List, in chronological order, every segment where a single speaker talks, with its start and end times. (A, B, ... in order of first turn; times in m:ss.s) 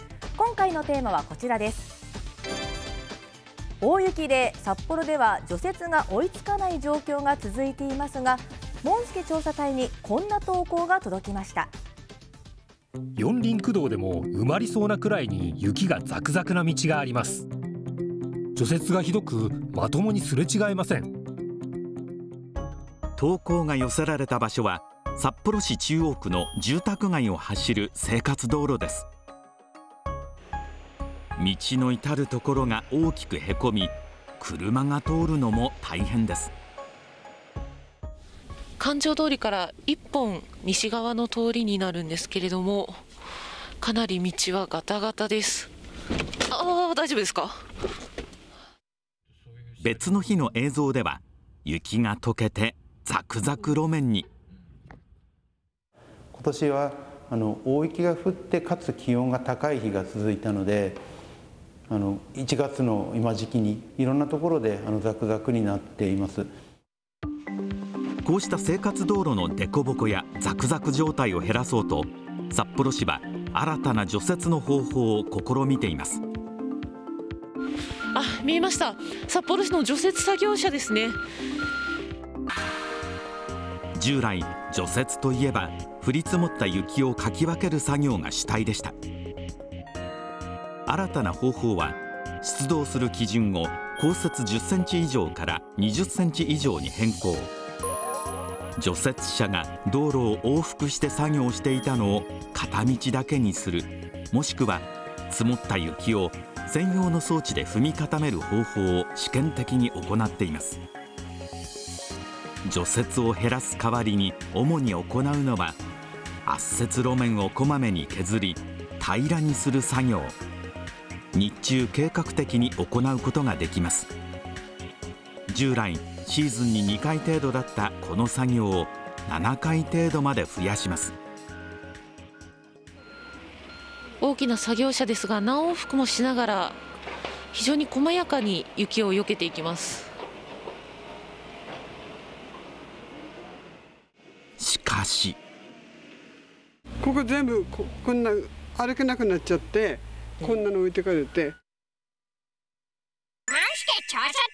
0:00.4-0:02.0 A
0:03.8-0:11.7 A
0:13.1-0:17.5 B
0:18.5-0:21.1 B
0:23.2-0:29.0 C
0:31.4-0:36.5 C
0:38.8-0:43.0 D
0:43.8-0:45.7 D
0:46.5-0:47.6 D
0:49.8-0:54.3 C
0:56.3-1:01.0 E
1:01.9-1:06.5 E
1:08.2-1:16.2 C
1:18.1-1:21.2 D
1:23.9-1:28.9 C
1:30.8-1:37.5 C
1:38.8-1:50.8 C
1:52.6-1:55.8 C
1:56.4-2:00.4 C
2:01.3-2:04.1 C
2:05.5-2:11.2 C
2:14.2-2:16.8 D
2:17.5-2:20.1 D
2:24.6-2:25.4 C
2:27.0-2:31.5 F